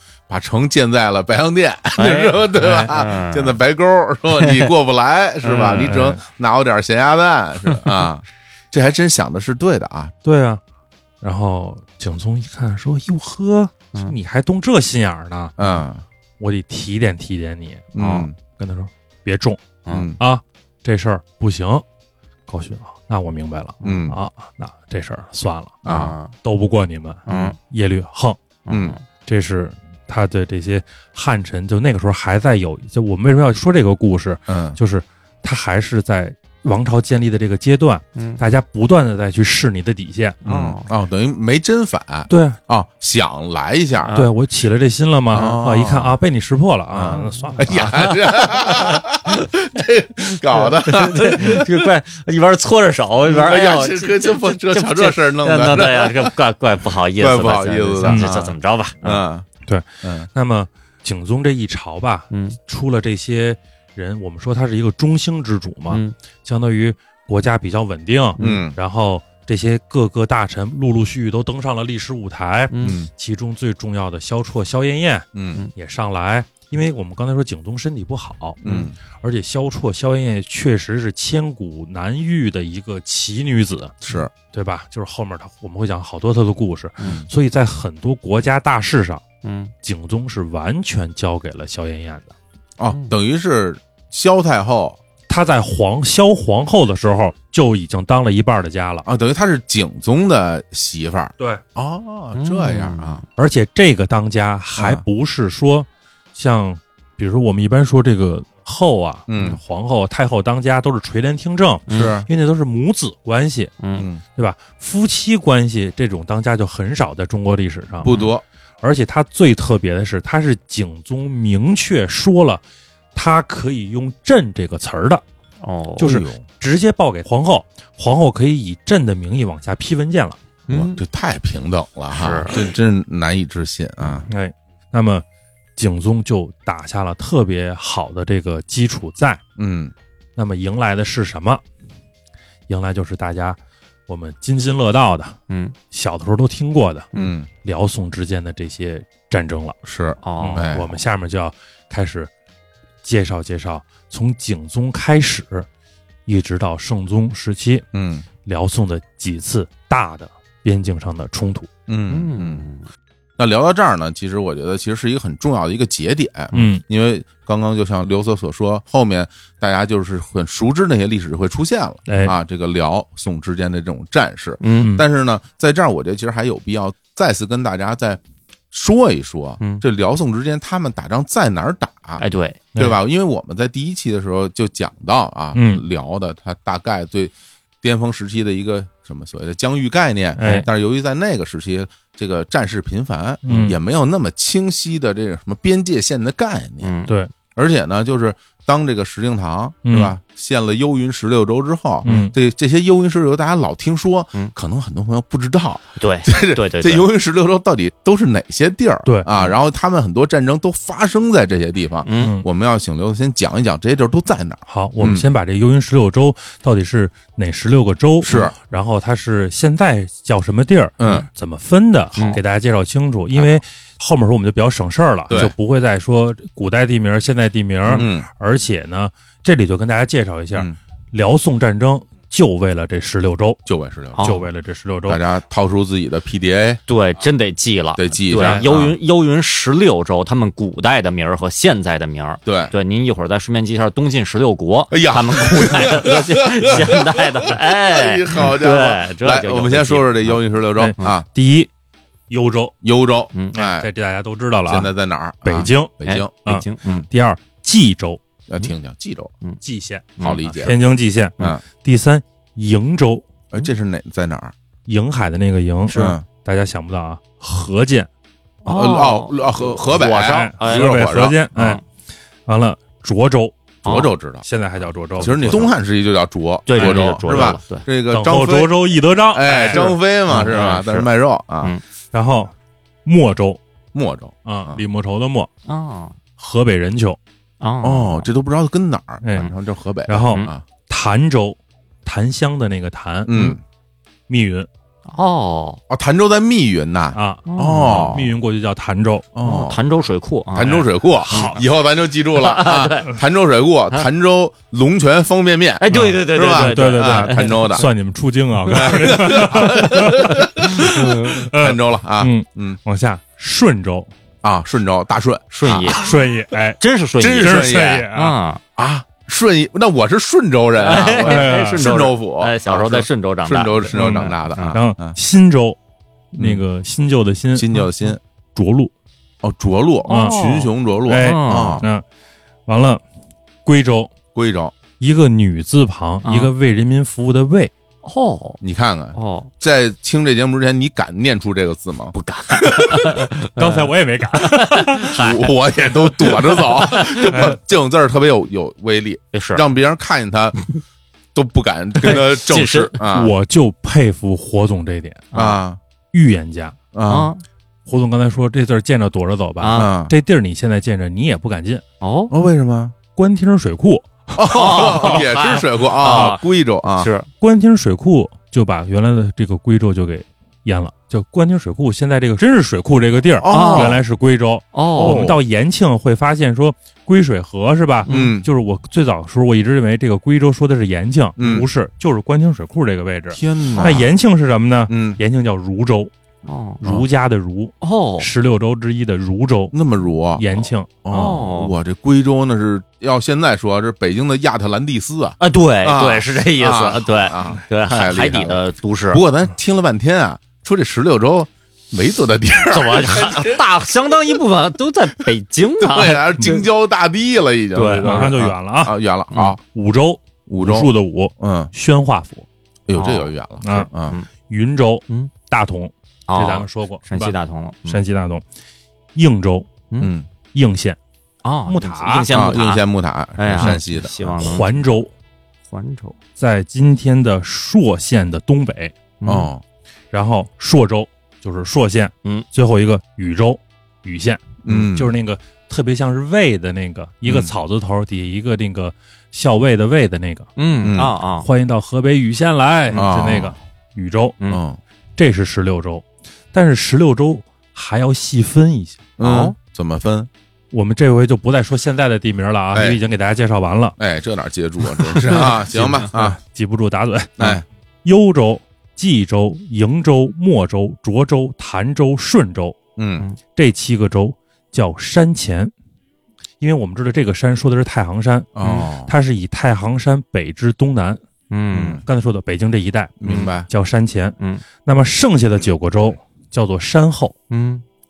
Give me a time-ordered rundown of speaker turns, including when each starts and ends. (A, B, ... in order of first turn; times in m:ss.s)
0:00.3-0:10.1 A
0:02.0-0:03.6 B
0:04.4-0:04.7 B
0:05.4-0:06.0 B
0:05.8-0:06.2 C
0:10.2-0:10.6 C
0:11.2-0:15.6 C
0:15.6-0:16.0 A
0:16.4-0:17.9 C
0:17.9-0:18.4 A
0:18.0-0:18.3 B
0:18.6-0:21.8 C
0:19.9-0:20.2 A
0:22.5-0:25.8 C
0:23.8-0:24.1 B
0:23.8-0:24.2 A
0:25.8-0:26.2 A
0:25.8-0:26.3 B
0:26.4-0:28.4 C
0:27.3-0:27.6 B
0:28.7-0:29.0 B
0:28.7-0:29.0 A
0:29.3-0:40.4 C
0:34.5-0:34.8 A
0:40.4-0:40.9 B
0:40.4-0:44.2 A
0:42.3-0:42.6 C
0:44.0-0:44.3 B
0:44.1-0:48.0 C
0:45.3-0:46.2 A
0:46.9-0:51.9 A
0:47.1-0:49.3 B
0:50.4-0:59.2 B
0:53.2-0:56.4 A
0:57.2-0:59.5 A
0:58.0-0:58.3 C
0:59.6-1:29.2 C
1:00.0-1:00.3 A
1:02.3-1:02.6 B
1:08.4-1:08.7 B
1:08.4-1:08.8 A
1:12.7-1:13.0 B
1:12.8-1:13.1 A
1:15.4-1:15.6 A
1:18.6-1:19.0 A
1:24.0-1:24.3 A
1:27.0-1:27.3 A
1:29.4-1:29.7 B
1:29.8-1:32.3 C
1:32.8-1:35.0 A
1:35.3-1:39.1 C
1:39.0-1:43.2 A
1:42.4-1:43.2 B
1:43.4-1:53.8 C
1:44.8-1:45.0 A
1:49.3-1:49.6 A
1:51.9-1:52.2 B
1:51.9-1:52.3 A
1:53.8-1:54.1 B
1:54.0-1:54.2 A
1:54.4-1:58.1 C
1:58.0-1:58.4 A
1:58.1-1:58.3 B
1:58.8-2:02.6 C
2:03.2-2:05.2 C
2:05.6-2:06.1 B
2:06.0-2:10.4 C
2:06.0-2:06.4 A
2:10.7-2:11.0 B
2:10.7-2:14.3 A
2:12.1-2:12.6 B
2:14.3-2:15.2 C
2:15.8-2:19.4 C
2:19.6-2:19.9 A
2:20.4-2:21.6 C
2:22.7-2:25.4 C
2:25.5-2:25.8 B
2:25.9-2:27.1 C
2:27.1-2:27.5 A
2:27.6-2:29.8 C
2:29.8-2:31.0 A
2:30.2-2:30.7 B
2:30.4-2:32.3 C
2:33.0-2:35.7 C
2:36.3-2:37.8 C
2:37.9-2:38.2 A
2:38.4-2:41.7 C
2:41.9-2:42.7 A
2:42.1-2:42.9 B
2:43.4-2:58.2 A
2:46.5-2:46.8 C
2:52.1-2:52.4 C
2:54.6-2:54.9 B
2:54.8-2:55.0 C
2:58.7-3:02.2 A
3:02.2-3:02.6 B
3:02.8-3:17.0 A
3:05.5-3:05.8 C
3:10.4-3:10.7 C
3:13.4-3:13.8 C
3:16.8-3:17.1 B
3:17.6-3:35.3 A
3:19.8-3:20.1 C
3:22.0-3:22.3 C
3:26.0-3:27.1 B
3:32.0-3:32.3 B
3:32.2-3:32.4 C
3:34.7-3:53.6 C
3:38.2-3:38.6 A
3:41.0-3:41.3 A
3:45.3-3:45.5 A
3:47.9-3:48.3 A
3:53.7-3:54.3 A
3:54.2-3:54.4 B
3:54.2-3:55.2 C
3:55.1-3:56.8 A
3:56.9-4:10.4 B
3:58.0-3:59.0 A
3:58.3-3:58.7 C
4:02.5-4:02.7 A
4:04.9-4:11.3 A
4:10.8-4:11.7 C
4:12.3-4:12.8 C
4:12.8-4:13.9 A
4:13.5-4:14.9 C
4:14.7-4:16.3 A
4:15.4-4:15.9 C
4:16.0-4:17.0 B
4:16.5-4:18.2 C
4:18.5-4:19.3 A
4:19.6-4:23.3 C
4:20.2-4:20.4 B
4:20.2-4:20.8 A
4:23.5-4:24.5 A
4:24.9-4:28.1 C
4:25.9-4:26.2 A
4:28.6-4:31.0 B
4:28.7-4:31.4 A
4:30.0-4:31.8 C
4:31.6-4:31.8 B
4:32.5-4:33.6 C
4:33.8-4:34.1 B
4:33.8-4:34.4 A
4:34.4-4:35.7 C
4:35.2-4:38.8 A
4:35.4-4:35.7 B
4:36.7-4:37.8 B
4:36.8-4:37.5 C
4:38.1-4:39.9 C
4:39.3-4:41.8 A
4:39.7-4:41.1 B
4:42.1-4:42.5 C
4:43.0-4:43.6 C
4:43.9-4:44.8 A
4:44.4-4:45.5 C
4:45.7-4:46.2 B
4:46.4-4:47.2 C
4:47.6-4:48.3 B
4:47.8-4:50.6 A
4:49.2-4:49.5 C
4:50.1-4:53.4 C
4:53.3-4:53.6 A
4:54.3-4:54.7 C
4:55.1-4:55.8 B
4:55.9-4:58.3 A
4:57.1-4:59.3 C
4:57.5-4:58.2 B
4:59.4-4:59.8 A
4:59.4-5:01.6 B
5:00.5-5:07.9 A
5:00.6-5:01.6 C
5:02.3-5:03.2 B
5:05.8-5:07.8 B
5:05.9-5:14.1 C
5:08.7-5:12.8 A
5:14.4-5:16.1 A
5:15.5-5:16.1 B
5:15.8-5:16.8 C
5:16.8-5:18.6 B
5:17.2-5:18.1 A
5:17.4-5:18.4 C
5:18.8-5:25.2 A
5:20.8-5:24.8 B
5:21.2-5:21.9 C
5:23.9-5:25.8 C
5:26.3-5:28.9 C
5:27.5-5:28.2 A
5:29.4-5:31.9 A
5:30.1-5:30.4 C
5:30.1-5:31.8 B
5:31.1-5:32.0 C
5:32.7-5:33.0 C
5:33.6-5:34.1 C
5:34.3-5:34.7 A
5:35.0-5:37.7 C
5:36.2-5:36.5 B
5:38.0-5:38.6 B
5:38.6-5:43.4 A
5:39.2-5:39.5 B
5:42.1-5:47.5 B
5:43.6-5:45.3 C
5:45.0-5:50.6 A
5:47.3-5:47.6 C
5:49.3-5:49.6 B
5:51.3-5:53.3 A
5:52.0-5:52.9 B
5:53.0-5:55.3 C
5:55.3-5:55.6 B
5:55.3-5:55.8 A
5:56.1-5:56.8 C
5:56.9-5:57.3 A
5:57.0-5:57.4 B
5:57.9-6:01.8 C
5:59.6-5:59.9 B
5:59.7-6:00.1 A
6:02.0-6:02.3 B
6:02.3-6:03.0 A
6:03.2-6:05.2 C
6:04.4-6:07.1 A
6:04.5-6:06.4 B
6:07.0-6:07.3 B
6:07.4-6:26.1 C
6:13.4-6:14.0 A
6:13.5-6:14.0 B
6:14.7-6:15.4 B
6:15.0-6:15.4 A
6:18.1-6:18.4 B
6:18.1-6:18.5 A
6:21.4-6:21.7 A
6:23.3-6:24.1 A
6:24.9-6:25.2 A
6:26.4-6:26.8 B
6:26.8-6:29.8 C
6:27.8-6:28.3 B
6:29.7-6:43.6 A
6:30.4-6:31.4 C
6:31.1-6:31.7 B
6:35.4-6:39.2 B
6:42.7-6:46.7 B
6:45.8-6:49.6 A
6:47.8-6:48.3 B
6:48.0-6:49.0 C
6:49.6-6:52.5 C
6:50.5-6:51.7 A
6:52.9-6:54.2 A
6:52.9-6:53.3 B
6:53.6-6:53.9 C
6:54.5-6:57.3 C
6:56.3-6:58.0 B
6:57.9-6:58.4 C
6:59.2-6:59.7 C
7:00.0-7:00.3 A
7:00.5-7:01.0 C
7:01.4-7:02.8 B
7:01.6-7:02.3 C
7:02.3-7:04.5 A
7:03.4-7:04.7 B
7:04.4-7:05.1 C
7:05.7-7:06.2 B
7:06.4-7:09.0 C
7:09.2-7:09.5 B
7:09.2-7:09.6 A
7:10.1-7:20.5 C
7:14.6-7:15.1 A
7:17.2-7:17.5 A
7:20.6-7:21.5 B
7:20.8-7:21.2 A
7:21.4-7:24.4 C
7:22.9-7:23.6 A
7:24.5-7:24.8 A
7:25.2-7:29.0 C
7:29.2-7:30.3 A
7:29.2-7:29.5 B
7:30.7-7:34.0 C
7:32.7-7:33.0 A
7:34.0-7:36.4 A
7:35.1-7:35.5 B
7:35.4-7:42.8 C
7:37.4-7:37.6 A
7:43.0-7:43.3 A
7:43.6-7:45.7 C
7:46.6-7:51.2 C
7:48.6-7:49.1 A
7:51.5-7:52.0 B
7:51.7-7:52.0 A
7:52.0-7:57.4 C
7:53.2-7:53.7 A
7:53.3-7:53.5 B
7:54.4-7:54.6 B
7:57.5-7:57.8 B